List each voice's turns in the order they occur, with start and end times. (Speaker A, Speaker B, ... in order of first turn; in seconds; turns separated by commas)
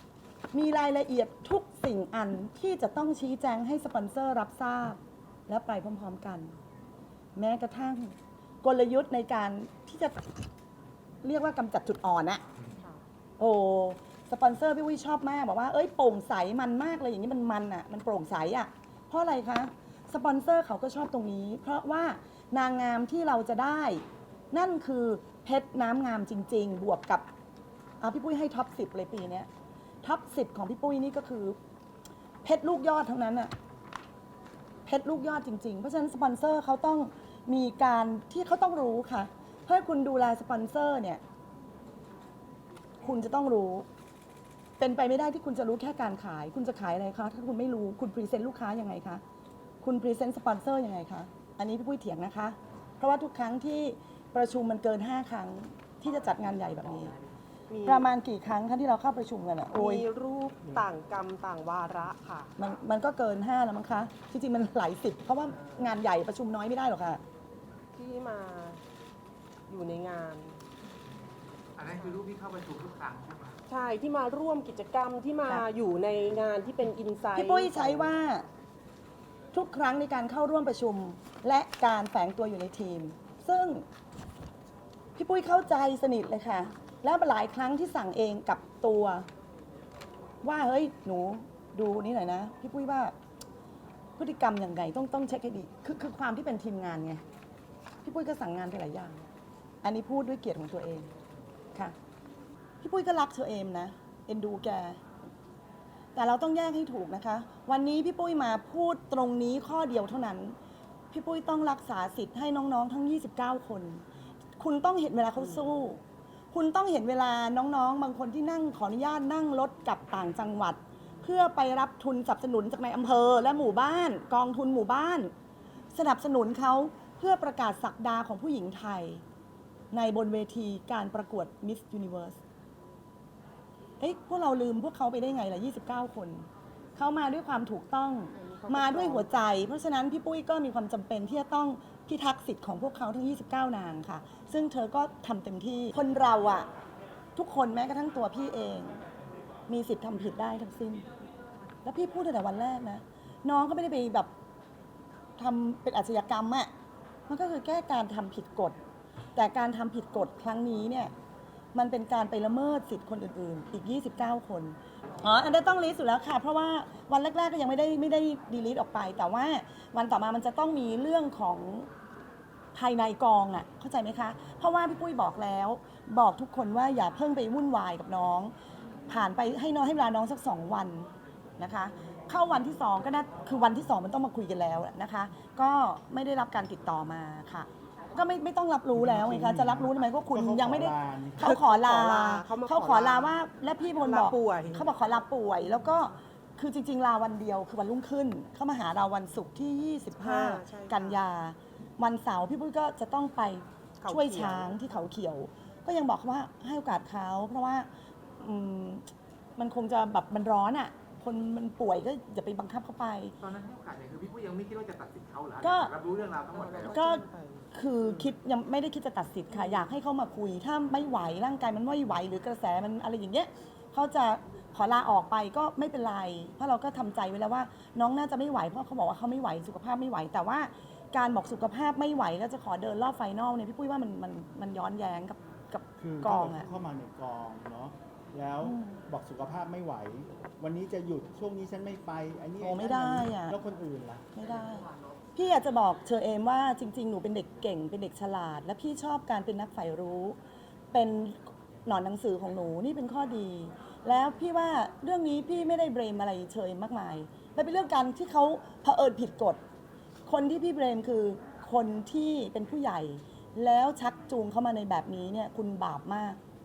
Speaker A: 0.5-6.5, Speaker A: 7.3-10.2, Speaker A: 11.2-12.4, Speaker A: 13.4-27.2, Speaker A: 28.0-29.5, Speaker A: 30.0-31.6, Speaker A: 32.4-33.5, Speaker A: 34.9-41.2, Speaker A: 43.0-43.9, Speaker A: 44.8-49.2, Speaker A: 49.8-57.1, Speaker B: 57.7-58.1, Speaker A: 57.8-60.1, Speaker B: 59.7-62.5, Speaker A: 62.6-67.2, Speaker B: 67.9-68.8, Speaker B: 69.7-70.6, Speaker C: 71.8-73.6, Speaker B: 71.9-72.2, Speaker B: 73.7-78.1, Speaker A: 77.3-78.5, Speaker A: 79.5-83.8, Speaker A: 85.2-89.3, Speaker A: 90.4-93.1, Speaker A: 94.2-97.2, Speaker A: 98.0-99.3, Speaker A: 99.8-101.1, Speaker A: 102.8-105.0, Speaker A: 106.1-110.6, Speaker A: 111.1-114.0, Speaker A: 114.6-116.0, Speaker A: 116.5-125.3, Speaker A: 125.9-129.2, Speaker A: 129.9-132.4, Speaker A: 134.0-146.7, Speaker B: 138.3-139.3, Speaker A: 147.4-149.0, Speaker A: 149.7-151.1, Speaker A: 151.8-154.3, Speaker A: 155.4-156.7, Speaker A: 157.3-158.8, Speaker A: 159.4-161.1, Speaker A: 161.7-171.9, Speaker A: 172.7-178.5, Speaker A: 179.1-207.9, Speaker D: 188.9-191.6, Speaker B: 191.4-194.9, Speaker B: 200.2-201.2, Speaker B: 204.0-204.7, Speaker A: 208.4-213.4, Speaker C: 213.4-216.9, Speaker A: 215.6-215.9, Speaker B: 216.5-217.7, Speaker A: 216.9-236.7, Speaker D: 236.0-244.3, Speaker A: 238.6-239.0, Speaker A: 242.6-243.6, Speaker A: 244.3-250.4, Speaker A: 250.9-259.6, Speaker A: 260.2-266.4